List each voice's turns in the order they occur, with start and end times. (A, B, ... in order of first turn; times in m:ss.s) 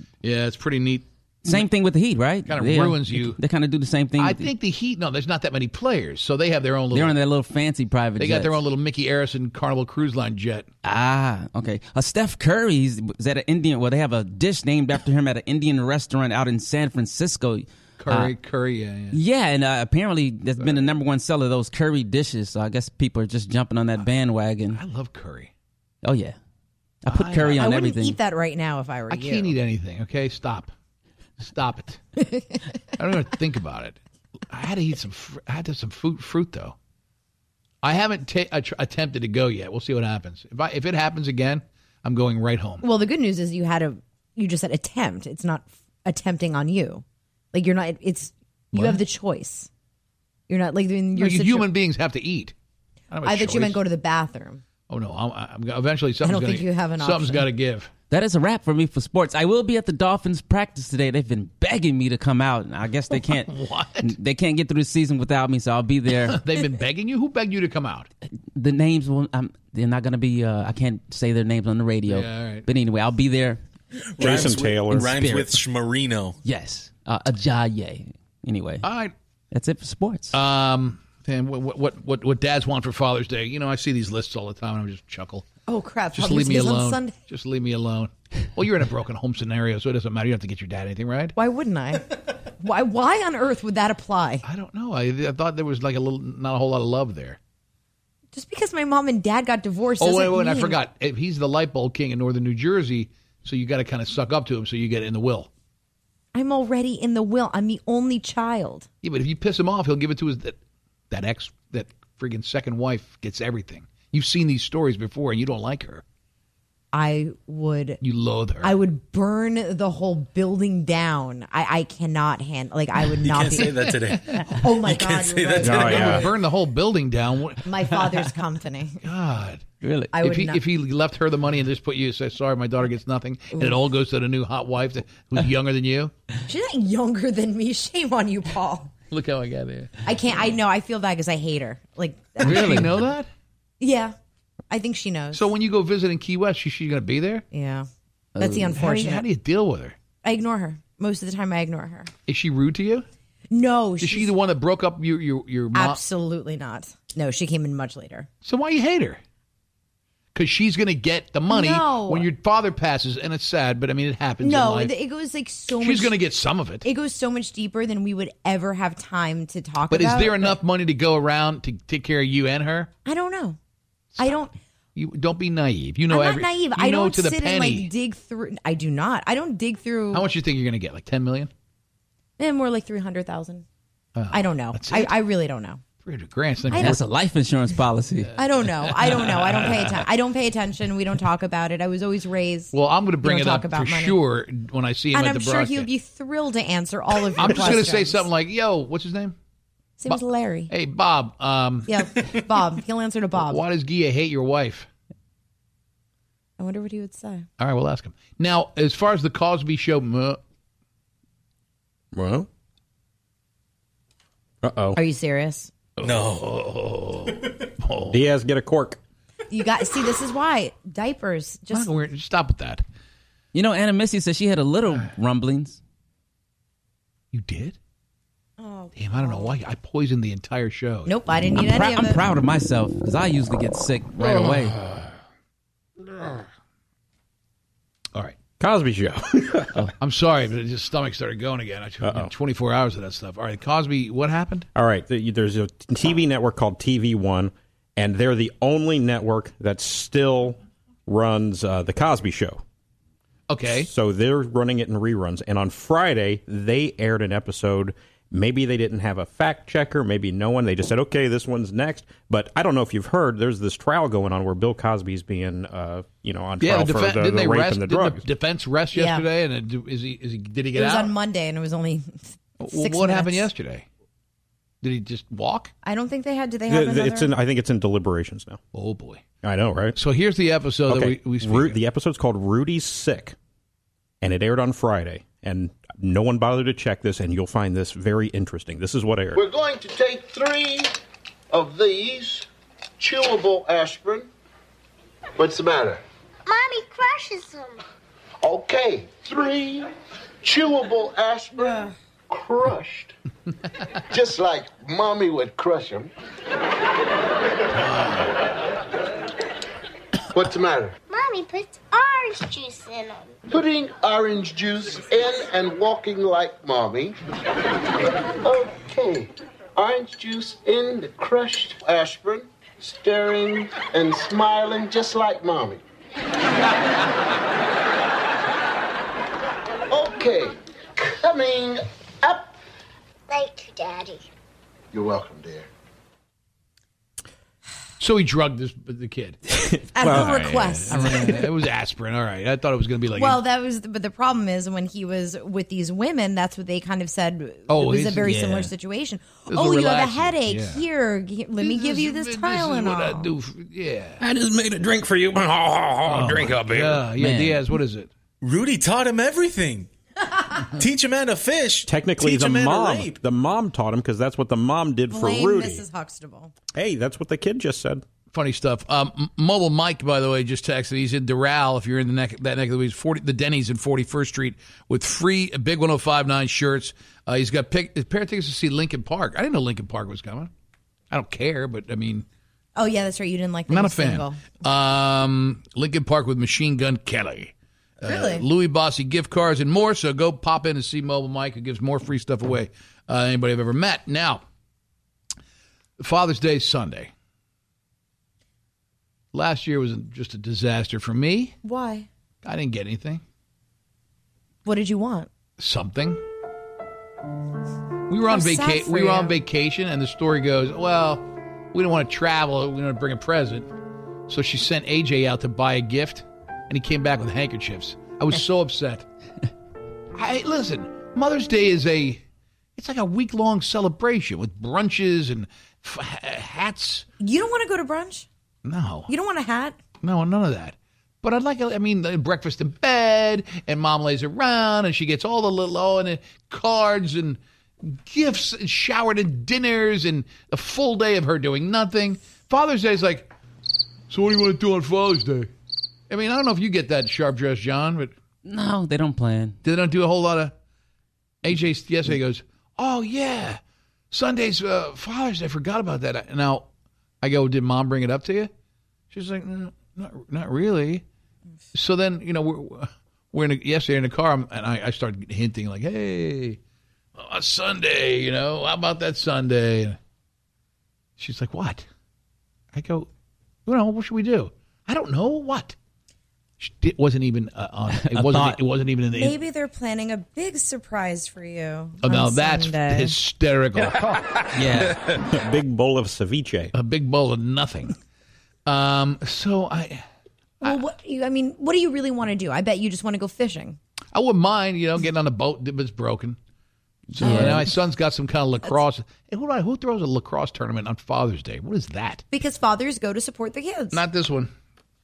0:00.2-0:01.6 A
0:01.4-0:04.5 B
0:02.5-0:03.4 A
0:04.2-0:07.2 A
0:06.9-0:08.6 B
0:08.2-0:10.7 A
0:10.8-0:18.3 B
0:18.0-0:19.2 A
0:19.1-0:24.8 B
0:24.7-0:25.5 A
0:26.0-0:26.4 B
0:27.0-0:28.2 B
0:27.1-0:27.6 A
0:27.5-0:29.5 C
0:29.1-0:30.7 A
0:31.4-0:32.0 A
0:33.0-0:34.0 A
0:34.5-0:36.8 A
0:37.8-0:42.8 A
0:42.8-0:49.7 C
0:48.7-0:49.0 A
0:50.5-0:51.7 C
0:51.2-0:52.5 A
0:53.1-0:53.8 A
0:53.2-0:54.6 C
0:54.9-0:57.9 A
0:56.2-0:57.5 C
0:58.1-1:03.5 B
1:03.2-1:04.1 A
1:04.0-1:06.4 B
1:06.2-1:08.1 A
1:08.5-1:13.6 B
1:12.1-1:12.7 A
1:14.2-1:16.4 D
1:14.2-1:15.2 E
1:14.3-1:15.6 B
1:16.4-1:18.8 B
1:18.8-1:19.1 A
1:19.5-1:20.3 B
1:20.3-1:25.4 A
1:25.7-1:27.1 C
1:26.1-1:31.3 A
1:31.4-1:34.4 C
1:34.4-1:37.4 A
1:38.3-1:40.8 C
1:40.0-1:45.5 A
1:46.3-1:48.9 C
1:49.0-1:50.6 A
1:51.1-1:56.0 A
1:56.9-1:58.0 C
1:58.0-1:58.7 A
1:58.6-2:06.3 C
2:03.2-2:06.2 D
2:03.6-2:04.6 A
2:05.6-2:06.3 E
2:05.6-2:07.7 A
2:07.6-2:09.0 C
2:09.0-2:09.6 A
2:09.8-2:10.1 B
2:10.1-2:10.6 C
2:10.2-2:16.1 A
2:16.4-2:18.9 C
2:19.1-2:19.9 A
2:20.0-2:22.8 C
2:22.4-2:23.3 A
2:22.4-2:22.9 B
2:23.8-2:24.1 C
2:24.7-2:25.4 C
2:25.3-2:27.4 A
2:27.5-2:27.9 C
2:28.4-2:28.7 B
2:28.4-2:29.2 C
2:28.7-2:30.0 A
2:30.2-2:32.1 C
2:32.3-2:33.0 A
2:33.5-2:34.3 C
2:34.0-2:36.0 A
2:35.7-2:38.3 C
2:38.4-2:39.2 A
2:40.3-2:44.9 A
2:41.5-2:42.3 C
2:44.4-2:46.2 C
2:45.8-2:46.8 A
2:46.8-2:50.6 C
2:49.9-2:52.9 A
2:53.0-2:53.6 C
2:54.2-2:54.5 C
2:55.0-2:57.9 A
2:56.1-3:00.3 C
3:00.1-3:01.5 A
3:02.4-3:03.6 C
3:04.2-3:05.2 A
3:04.3-3:05.8 C
3:06.0-3:07.0 A
3:06.7-3:07.0 C
3:06.7-3:08.3 B
3:08.4-3:14.2 C
3:08.6-3:10.0 A
3:12.7-3:15.9 A
3:15.1-3:18.2 C
3:17.3-3:19.4 A
3:20.0-3:20.7 C
3:20.1-3:22.0 A
3:21.9-3:23.6 C
3:23.4-3:24.9 A
3:26.6-3:27.4 C
3:27.6-3:30.4 A
3:32.1-3:32.5 E
3:34.6-3:35.0 E
3:34.9-3:35.7 C
3:36.0-3:38.2 A
3:36.0-3:36.5 D
3:38.1-3:39.0 E
3:39.5-3:41.9 C
3:41.7-3:42.8 A
3:43.5-3:45.8 B
3:47.3-3:47.8 A
3:48.6-3:49.6 C
3:49.0-3:51.1 A
3:51.0-3:52.2 C
3:51.6-3:54.8 B
3:58.6-3:59.9 E
4:00.0-4:04.7 A
4:02.0-4:02.3 E
4:04.7-4:12.6 E
4:13.5-4:13.9 A
4:13.6-4:28.2 E
4:26.6-4:31.1 A
4:28.9-4:29.2 C
4:30.7-4:33.5 C
4:32.6-4:33.8 A
4:34.8-4:35.7 A
4:35.8-4:37.3 C
4:36.7-4:38.6 E
4:38.7-4:39.2 A
4:39.4-4:40.0 E
4:40.0-4:41.8 A
4:40.9-4:43.4 E
4:44.2-4:49.4 E
4:49.3-4:50.9 F
4:51.5-4:52.5 F
4:53.0-4:54.3 F
4:55.4-4:56.0 F
4:56.4-4:57.8 G
4:58.4-4:59.9 F
5:00.4-5:03.1 F
5:04.1-5:06.1 F
5:07.9-5:08.2 A
5:10.3-5:11.0 F
5:11.1-5:13.4 G
5:13.5-5:17.2 F
5:18.4-5:25.8 F
5:29.9-5:32.6 F
5:33.3-5:34.2 G
5:34.9-5:35.7 F
5:38.0-5:39.4 A
5:39.9-5:41.4 E
5:39.9-5:41.4 C
5:40.1-5:43.4 A
5:43.2-5:53.3 C
5:47.7-5:48.5 A
5:48.3-5:48.7 B
5:49.5-5:50.8 A
5:51.6-5:54.2 A
5:54.2-5:57.0 E
5:56.0-5:58.1 A
5:57.2-5:57.6 B
5:58.4-5:59.9 D
6:00.7-6:03.2 D
6:01.8-6:05.8 E
6:05.1-6:06.5 C
6:06.7-6:08.0 E
6:08.3-6:20.5 A
6:21.1-6:22.2 A
6:22.8-6:24.4 C
6:23.7-6:34.4 A
6:28.0-6:28.4 C
6:36.0-6:37.1 A
6:39.3-6:41.6 A
6:41.6-6:42.1 C
6:42.4-6:43.2 A
6:44.6-6:45.3 C
6:45.6-6:46.2 A
6:48.1-6:53.7 A
6:48.3-6:49.4 C
6:54.3-6:59.0 A
7:00.1-7:02.2 A
7:02.8-7:07.0 A
7:07.2-7:08.3 C
7:08.6-7:09.1 A
7:09.1-7:09.8 C
7:10.0-7:23.3 A
7:24.1-7:25.5 A
7:26.1-7:28.1 A
7:28.4-7:29.6 B
7:29.6-7:30.5 A
7:31.4-7:33.6 A
7:34.1-7:36.6 A
7:37.2-7:38.5 A
7:39.1-7:41.0 A
7:41.7-7:46.6 A
7:47.2-7:50.0 A
7:51.2-7:51.8 A
7:52.7-7:53.1 A
7:53.6-7:55.7 A
7:56.6-7:59.4 A
7:58.0-7:58.6 B
7:59.1-8:03.2 C
8:02.0-8:04.0 A
8:04.5-8:05.0 B
8:04.8-8:06.7 E
8:06.7-8:08.0 A
8:08.6-8:10.0 A
8:10.6-8:13.8 C
8:14.1-8:16.4 A
8:17.1-8:22.2 A
8:17.1-8:17.7 B
8:17.2-8:17.6 C
8:22.3-8:24.0 C
8:23.9-8:24.5 A